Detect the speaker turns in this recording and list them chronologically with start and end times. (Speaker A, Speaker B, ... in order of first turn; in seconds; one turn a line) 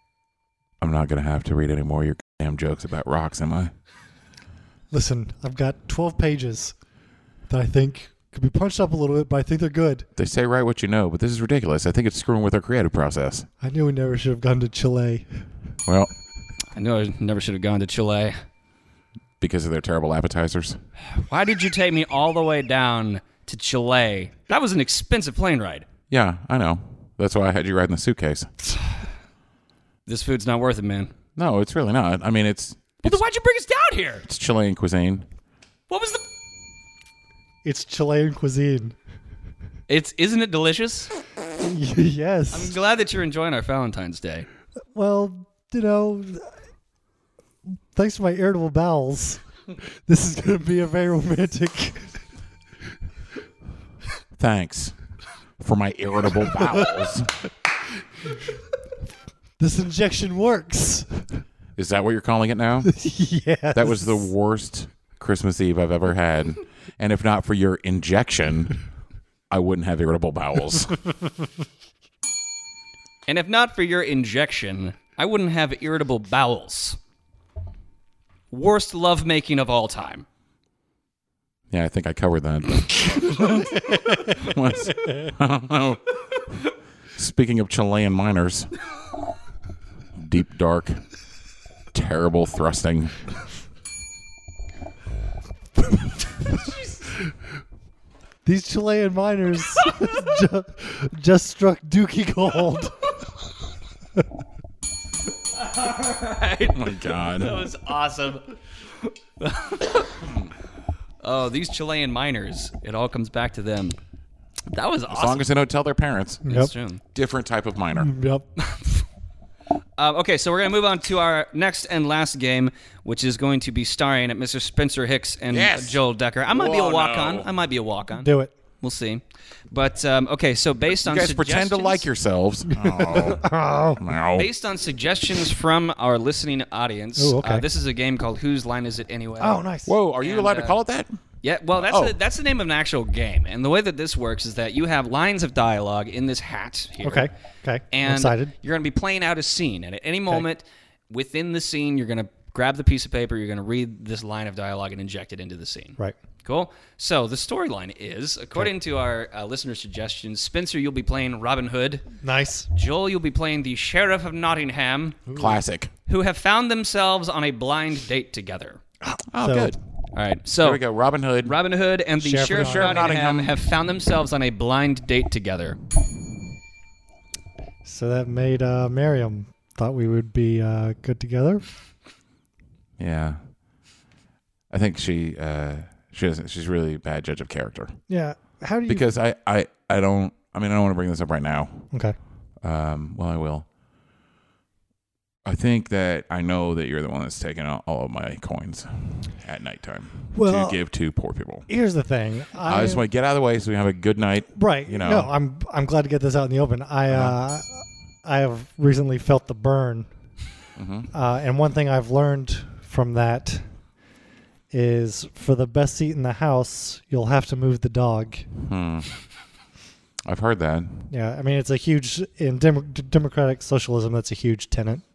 Speaker A: 0.8-3.7
Speaker B: 4.9-6.7
Speaker B: 7.5-10.1
Speaker A: 10.2-13.5
Speaker B: 13.6-15.4
Speaker A: 15.8-16.1
Speaker C: 16.7-18.4
Speaker A: 19.4-20.8
Speaker C: 21.0-25.9
Speaker A: 26.1-28.5
Speaker C: 30.1-31.1
Speaker A: 31.4-33.2
Speaker C: 33.0-34.2
Speaker A: 34.2-35.2
Speaker C: 35.9-36.2
Speaker B: 37.6-39.0
Speaker C: 39.9-41.1
Speaker B: 41.6-42.8
Speaker C: 42.5-44.5
Speaker B: 44.9-46.5
Speaker B: 47.9-49.4
Speaker B: 50.0-52.2
Speaker A: 54.4-54.9
Speaker A: 55.6-57.4
Speaker B: 56.5-57.1
Speaker B: 59.6-61.4
Speaker A: 61.8-62.9
Speaker B: 62.8-64.3
Speaker A: 63.7-68.8
Speaker A: 69.5-71.0
Speaker C: 73.3-77.0
Speaker C: 78.5-80.2
Speaker A: 81.7-88.7
Speaker B: 83.7-85.3
Speaker A: 90.2-91.0
Speaker A: 91.9-93.2
Speaker B: 98.4-103.0
Speaker C: 99.8-100.1
Speaker C: 105.5-110.3
Speaker A: 106.7-107.6
Speaker C: 111.2-114.0
Speaker C: 114.7-115.5
Speaker A: 115.1-116.5
Speaker B: 116.4-116.7
Speaker C: 116.5-117.0
Speaker A: 117.1-118.1
Speaker B: 117.9-118.5
Speaker C: 118.6-119.0
Speaker C: 120.0-132.0
Speaker A: 125.5-127.5
Speaker B: 128.2-128.5
Speaker A: 131.0-133.5
Speaker B: 132.7-134.0
Speaker A: 134.0-134.5
Speaker C: 134.3-139.6
Speaker B: 137.2-137.6
Speaker B: 139.4-139.9
Speaker A: 139.8-141.1
Speaker C: 140.2-140.8
Speaker C: 141.4-147.3
Speaker A: 141.8-142.2
Speaker B: 147.0-148.5
Speaker C: 147.9-162.0
Speaker B: 162.2-162.7
Speaker C: 162.7-165.2
Speaker B: 165.3-165.6
Speaker A: 165.3-165.9
Speaker C: 166.1-168.8
Speaker B: 169.0-169.8
Speaker A: 169.3-169.8
Speaker C: 170.1-170.8
Speaker A: 170.6-171.6
Speaker C: 171.4-175.8
Speaker B: 172.2-173.1
Speaker A: 172.5-173.5
Speaker B: 177.8-181.6
Speaker A: 183.0-183.4
Speaker A: 184.7-188.0
Speaker B: 188.1-189.1
Speaker A: 188.9-191.9
Speaker B: 191.9-192.2
Speaker A: 192.6-193.7
Speaker A: 195.4-201.7
Speaker B: 200.3-200.8
Speaker B: 201.7-203.0
Speaker A: 202.6-205.3
Speaker B: 204.5-210.1
Speaker A: 207.1-207.4
Speaker A: 210.8-211.1
Speaker B: 211.1-213.7
Speaker B: 214.7-218.4
Speaker A: 218.6-219.1
Speaker A: 220.2-221.1
Speaker B: 221.1-225.0